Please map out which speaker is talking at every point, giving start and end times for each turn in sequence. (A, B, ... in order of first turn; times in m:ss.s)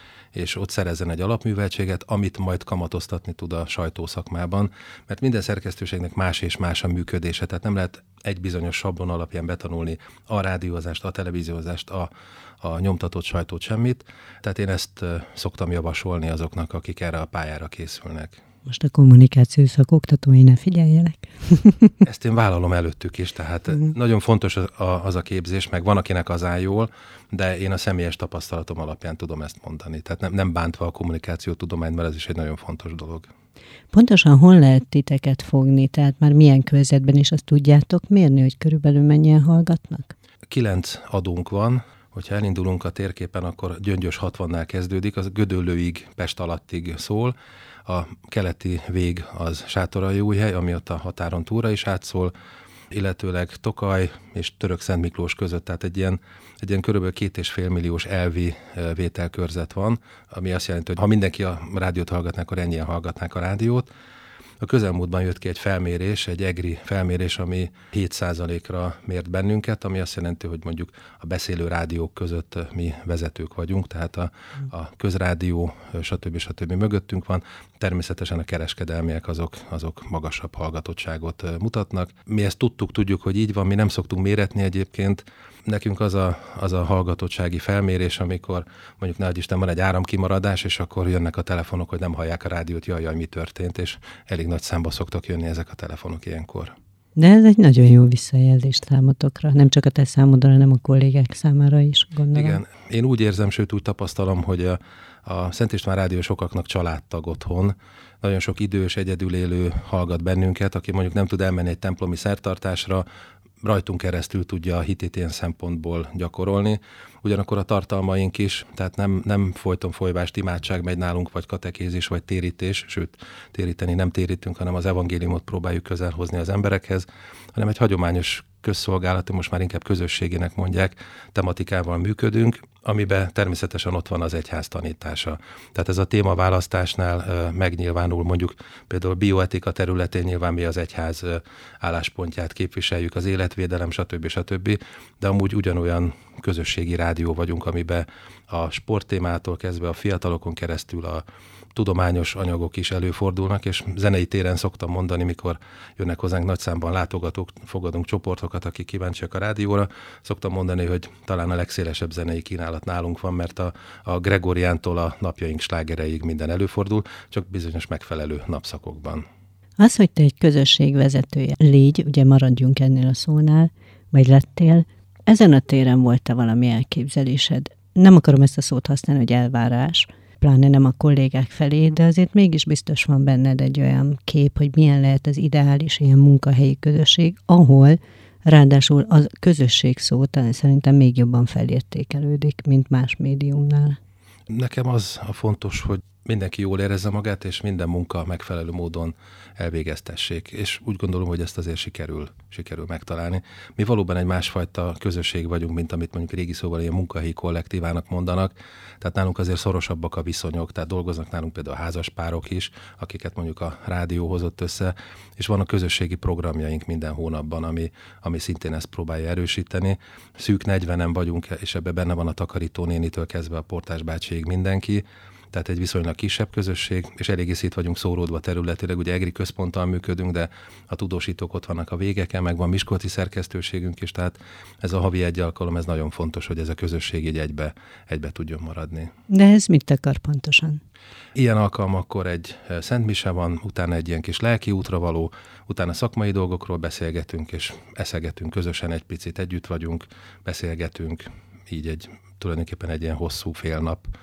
0:00.3-0:12.1 A
0:12.6-0:18.4 A
0:18.6-0:21.9 B
0:22.0-0:33.3 A
0:33.9-0:40.1 B
0:40.5-0:47.3 A
0:47.8-0:52.3 A
0:52.9-1:03.9 A
1:04.6-1:36.8 A
1:37.2-1:42.6 B
1:42.3-1:53.0 A
1:53.6-2:49.2 A
2:49.8-3:14.0 B
3:14.5-3:59.1 A
3:59.3-4:00.8 B
4:01.3-4:14.1 A